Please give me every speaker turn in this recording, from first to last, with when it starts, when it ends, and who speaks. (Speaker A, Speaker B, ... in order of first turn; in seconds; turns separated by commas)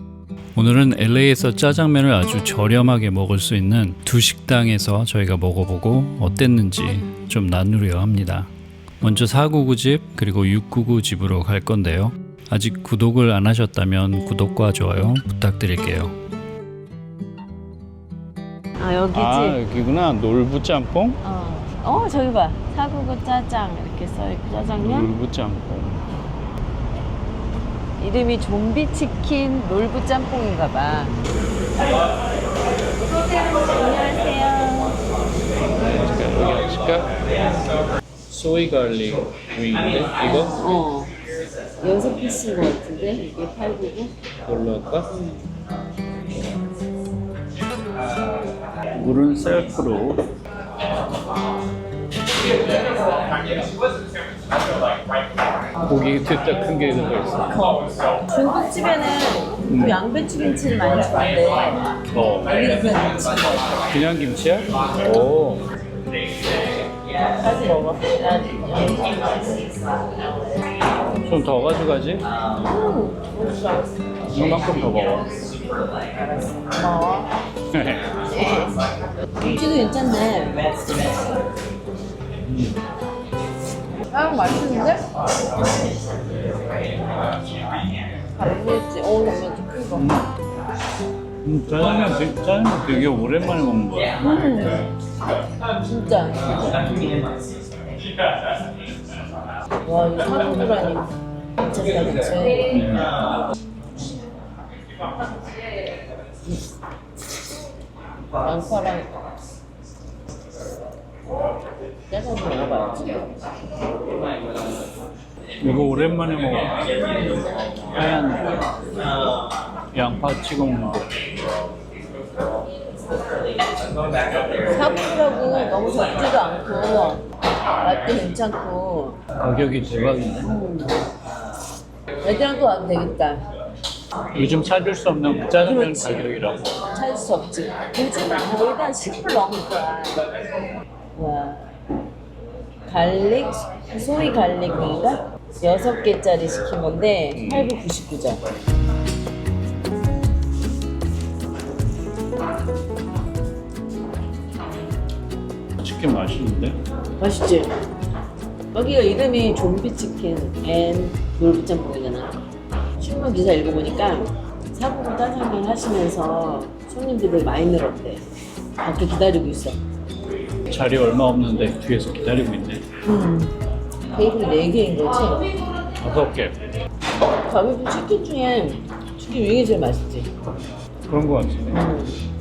Speaker A: 0.5-8.5, Speaker A: 9.0-16.1, Speaker B: 18.8-19.6, Speaker A: 19.1-21.2, Speaker B: 21.2-25.1, Speaker A: 24.8-26.0, Speaker B: 28.0-31.1, Speaker B: 33.4-35.0, Speaker A: 35.9-37.1, Speaker A: 38.3-40.6, Speaker B: 40.3-41.1, Speaker B: 41.8-44.1, Speaker A: 44.5-45.1, Speaker A: 49.0-50.2, Speaker A: 55.9-57.5, Speaker B: 57.6-61.8, Speaker A: 59.7-60.0, Speaker A: 62.1-62.6, Speaker B: 62.5-63.7, Speaker A: 63.9-65.6, Speaker B: 67.4-69.5, Speaker A: 71.2-72.2, Speaker B: 72.6-73.9, Speaker A: 74.3-75.3, Speaker B: 76.2-77.3, Speaker A: 77.7-78.0, Speaker B: 78.3-78.8, Speaker B: 79.4-80.9, Speaker B: 84.1-85.1, Speaker B: 88.3-90.2, Speaker A: 89.9-90.3, Speaker A: 91.4-94.2, Speaker B: 94.2-94.9, Speaker B: 95.8-96.8, Speaker B: 99.8-102.7, Speaker A: 102.7-103.1, Speaker B: 108.4-109.1, Speaker B: 112.1-113.3, Speaker A: 115.6-116.9, Speaker A: 117.9-118.6, Speaker A: 119.9-121.1, Speaker B: 124.7-127.2, Speaker B: 127.8-129.2, Speaker A: 129.4-130.5, Speaker B: 130.4-130.9, Speaker B: 132.2-133.4, Speaker A: 134.3-136.6, Speaker B: 135.6-136.3, Speaker B: 136.9-140.2, Speaker B: 141.1-141.6, Speaker B: 142.9-148.4, Speaker A: 147.3-147.7, Speaker A: 155.8-156.8, Speaker B: 157.2-157.7, Speaker B: 158.7-162.3, Speaker B: 163.0-168.2, Speaker B: 168.8-169.8, Speaker A: 170.7-172.8, Speaker B: 173.1-173.5, Speaker B: 174.1-175.5, Speaker A: 176.0-176.6, Speaker B: 177.4-180.3, Speaker A: 181.1-181.9, Speaker B: 181.7-182.2